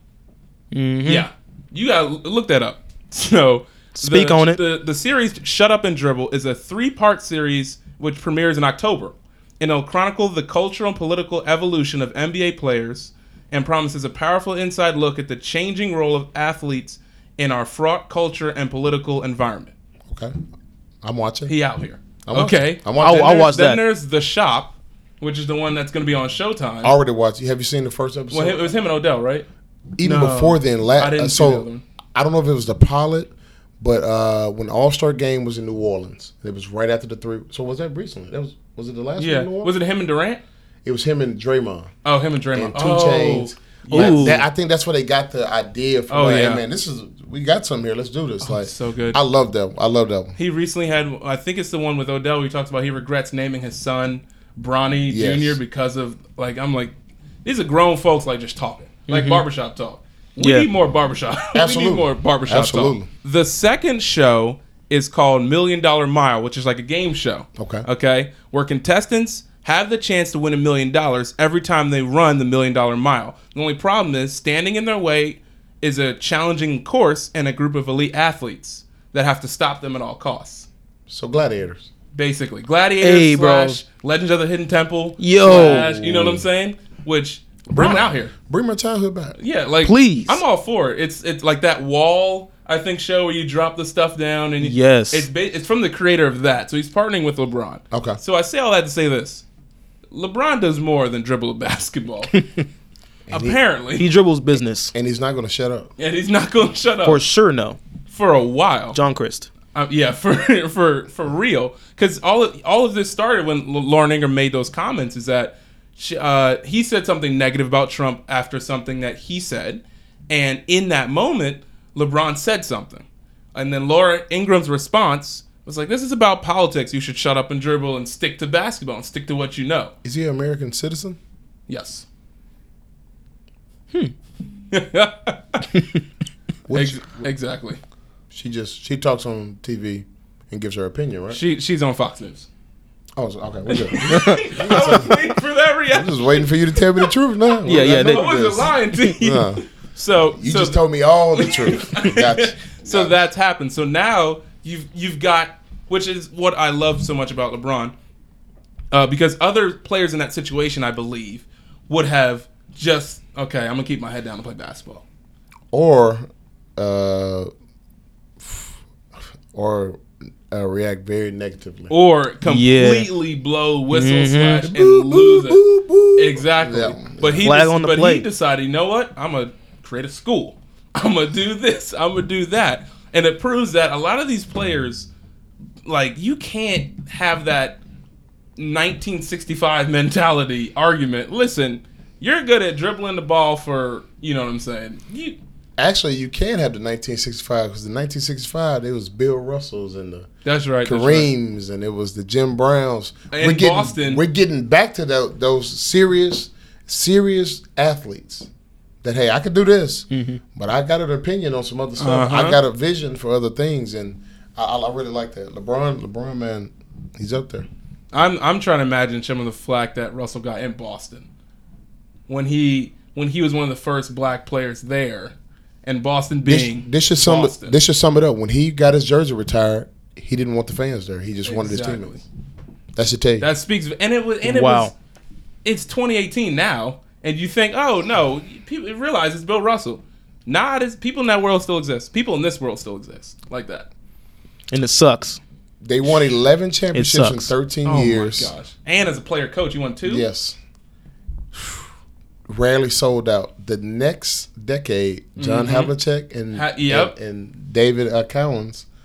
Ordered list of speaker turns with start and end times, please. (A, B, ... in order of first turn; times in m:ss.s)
0:00.7-0:01.3 A
0:01.1-0:19.7 B
0:04.0-0:04.6 A
0:21.0-0:21.5 C
0:21.5-0:27.0 B
0:22.2-0:23.3 C
0:23.0-0:23.8 A
0:26.8-0:28.7 C
0:28.3-0:29.5 B
0:30.0-0:39.7 C
0:30.0-0:31.8 B
0:39.2-0:40.4 B
0:40.8-0:41.9 C
0:42.0-0:44.4 B
0:42.5-0:50.4 C
0:43.9-0:44.4 A
0:46.1-0:46.6 B
0:48.4-0:49.2 B
0:50.4-1:20.7 B
0:55.1-0:55.6 C
0:59.1-0:59.4 A
1:00.4-1:00.7 A
1:01.5-1:03.1 C
1:07.6-1:07.9 C
1:21.1-1:21.9 C
1:22.1-1:28.3 B
1:23.0-1:23.8 A
1:25.2-1:25.9 A
1:25.4-1:26.4 C
1:27.7-1:29.4 C
1:29.4-1:39.4 B
1:29.8-1:30.4 A
1:34.6-1:35.3 A
1:37.9-1:38.2 C
1:40.1-1:42.3 B
1:43.3-1:43.6 C
1:43.3-1:44.1 B
1:44.0-1:44.9 A
1:44.5-1:45.9 C
1:46.0-1:47.2 B
1:47.0-1:47.8 A
1:48.1-1:49.0 B
1:48.9-1:49.5 A
1:49.8-2:09.9 B
2:10.0-2:11.2 C
2:11.7-2:12.0 B
2:14.7-2:15.7 B
2:16.7-2:17.3 C
2:16.7-2:17.8 B
2:18.3-2:21.4 C
2:21.3-2:22.5 B
2:23.2-2:25.2 C
2:23.7-2:26.5 B
2:24.1-2:24.4 A
2:25.9-2:29.6 C
2:27.0-2:30.8 B
2:27.6-2:29.1 A
2:30.4-2:33.2 C
2:31.4-2:37.9 B
2:38.9-2:45.0 B
2:45.7-2:47.5 C
2:48.4-2:48.8 C
2:49.5-2:51.9 C
2:51.9-2:55.6 B
2:52.4-2:53.1 A
2:53.9-2:54.7 A
2:54.6-2:57.5 C
2:56.2-3:05.1 B
2:57.4-2:58.3 A
3:05.8-3:07.8 B
3:08.6-3:15.4 B
3:15.8-3:20.3 C
3:20.4-3:21.3 B
3:20.8-3:28.5 C
3:23.3-3:24.2 B
3:29.0-3:37.7 C
3:30.1-3:30.4 A
3:32.0-3:32.6 B
3:38.1-3:41.3 B
3:42.3-3:45.3 B
3:45.8-3:47.8 B
3:46.5-3:52.2 C
3:51.4-3:52.2 B
3:53.0-3:53.5 C
3:53.4-3:54.9 B
3:54.4-3:54.9 A
3:55.6-4:03.9 B
4:04.7-4:05.4 A
4:05.8-4:08.5 C
4:06.9-4:07.5 A
4:07.8-4:10.3 B
4:10.0-4:10.6 C
4:12.5-4:18.9 C
4:15.4-4:15.9 B
4:16.5-4:17.1 B